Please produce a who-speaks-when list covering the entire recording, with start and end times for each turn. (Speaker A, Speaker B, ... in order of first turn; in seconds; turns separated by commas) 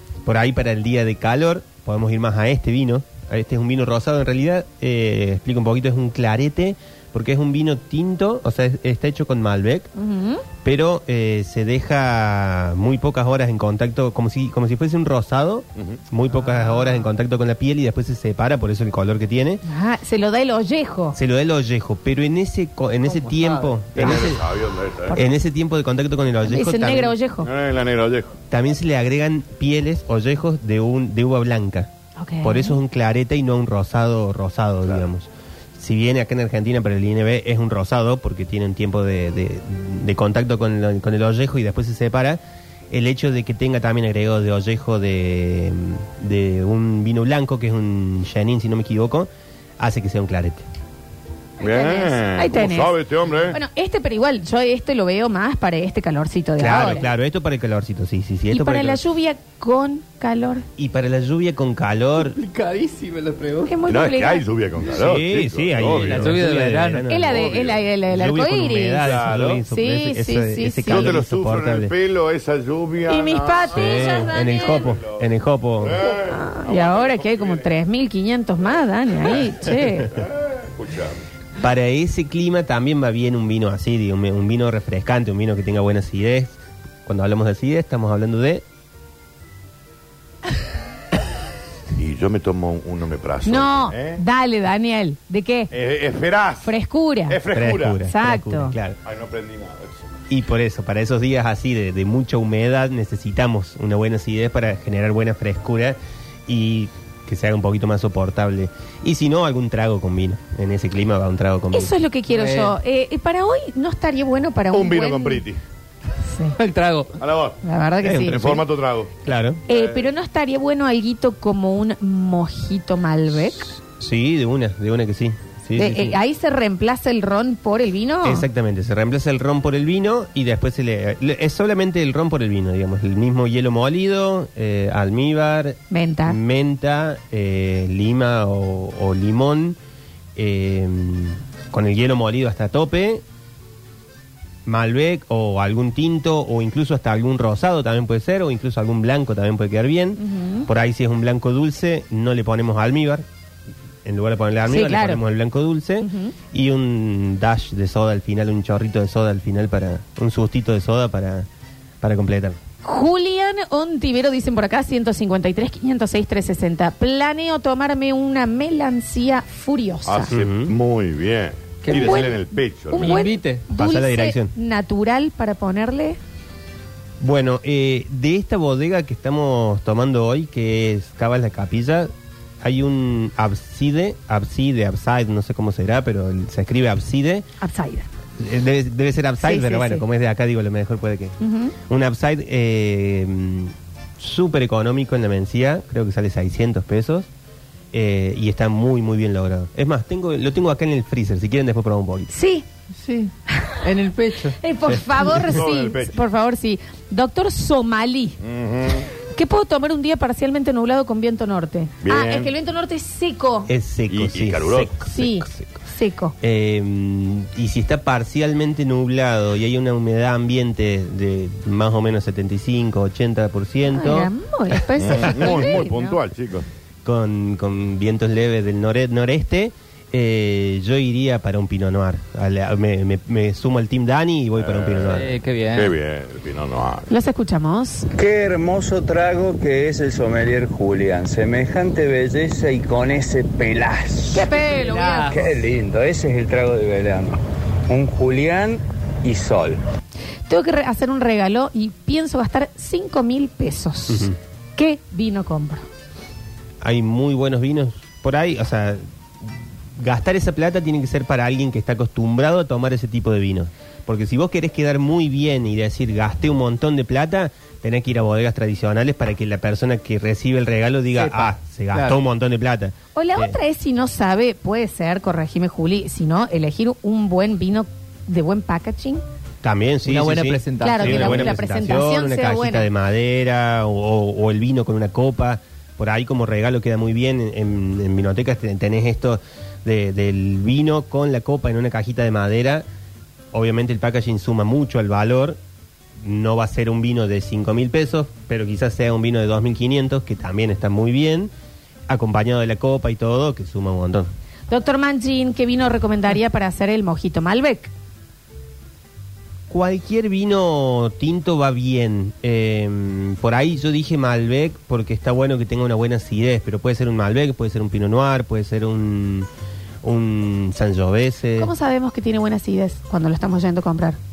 Speaker A: 0.2-9.9, Speaker B: 10.0-10.4, Speaker A: 10.6-19.6, Speaker B: 19.6-21.2, Speaker A: 21.1-24.4, Speaker C: 24.0-25.2, Speaker A: 25.1-27.1, Speaker B: 26.5-27.5, Speaker C: 27.4-28.3, Speaker A: 28.5-31.9, Speaker B: 32.2-32.8, Speaker A: 32.4-42.4, Speaker A: 42.9-49.3, Speaker A: 49.8-50.6, Speaker B: 51.6-53.0, Speaker C: 51.6-53.6, Speaker B: 53.5-57.1, Speaker A: 56.6-59.0, Speaker B: 58.5-60.7, Speaker A: 60.8-62.4, Speaker D: 62.2-63.8, Speaker B: 63.6-64.4, Speaker C: 63.9-66.3, Speaker A: 64.9-71.9, Speaker D: 66.0-67.0, Speaker B: 67.1-69.0, Speaker C: 67.3-67.7, Speaker C: 69.0-69.6, Speaker B: 69.7-71.2, Speaker C: 70.8-75.2, Speaker B: 73.1-74.9, Speaker A: 73.7-76.0, Speaker C: 75.8-77.7, Speaker B: 76.0-80.2, Speaker C: 80.5-81.2, Speaker A: 81.6-88.6, Speaker C: 92.0-94.2, Speaker B: 93.5-95.7, Speaker C: 95.7-96.7, Speaker B: 96.6-97.4, Speaker C: 97.3-98.0, Speaker A: 97.5-99.0, Speaker B: 98.0-98.8, Speaker C: 99.0-100.1, Speaker A: 100.3-106.0, Speaker A: 106.5-111.9, Speaker B: 111.7-115.4, Speaker D: 112.3-112.8, Speaker C: 114.7-115.6, Speaker B: 116.2-116.6, Speaker D: 116.6-117.2, Speaker C: 117.2-117.6, Speaker B: 117.6-118.4, Speaker A: 118.0-118.6, Speaker C: 118.1-119.2, Speaker A: 119.2-119.6, Speaker B: 119.7-123.7, Speaker C: 119.7-120.1, Speaker A: 123.8-126.2, Speaker B: 125.8-128.5, Speaker A: 128.2-139.8, Speaker B: 135.9-136.4, Speaker A: 140.4-143.2, Speaker A: 144.7-153.2, Speaker B: 150.2-150.7, Speaker A: 154.1-161.5, Speaker B: 154.7-155.2, Speaker B: 156.0-156.3, Speaker A: 162.0-162.6, Speaker B: 162.8-170.3, Speaker C: 170.1-173.2, Speaker A: 170.3-170.7, Speaker D: 171.8-172.3, Speaker B: 171.9-176.2, Speaker D: 173.0-173.6, Speaker A: 173.7-174.5, Speaker A: 177.2-182.1, Speaker A: 182.6-187.5, Speaker B: 187.6-188.1, Speaker A: 188.4-197.3, Speaker B: 189.4-190.1, Speaker B: 191.4-191.8, Speaker A: 197.9-202.3, Speaker B: 202.3-202.7, Speaker D: 203.0-203.3, Speaker B: 203.5-203.8, Speaker D: 203.8-204.6, Speaker B: 204.4-208.4, Speaker C: 205.4-206.2, Speaker C: 208.4-209.1, Speaker B: 209.2-213.7, Speaker C: 212.0-212.5, Speaker A: 213.7-215.7, Speaker C: 214.1-214.9, Speaker B: 215.1-216.3, Speaker A: 216.4-224.3, Speaker B: 223.9-226.2, Speaker C: 225.0-226.7, Speaker A: 227.1-235.3, Speaker C: 234.6-237.1, Speaker D: 235.1-236.0, Speaker B: 237.1-238.1, Speaker E: 238.1-247.4, Speaker B: 244.3-245.5, Speaker D: 244.5-245.5, Speaker E: 247.9-249.8, Speaker B: 250.5-255.8, Speaker A: 254.1-254.4, Speaker A: 256.8-259.0, Speaker A: 260.0-273.6, Speaker D: 271.1-272.2, Speaker B: 273.2-279.2, Speaker A: 279.6-292.9, Speaker D: 280.1-281.6, Speaker B: 280.8-282.9, Speaker A: 293.5-295.6, Speaker A: 296.2-301.5, Speaker A: 302.1-304.3, Speaker B: 304.7-307.9, Speaker A: 309.7-319.5, Speaker A: 320.0-321.7, Speaker B: 321.6-324.2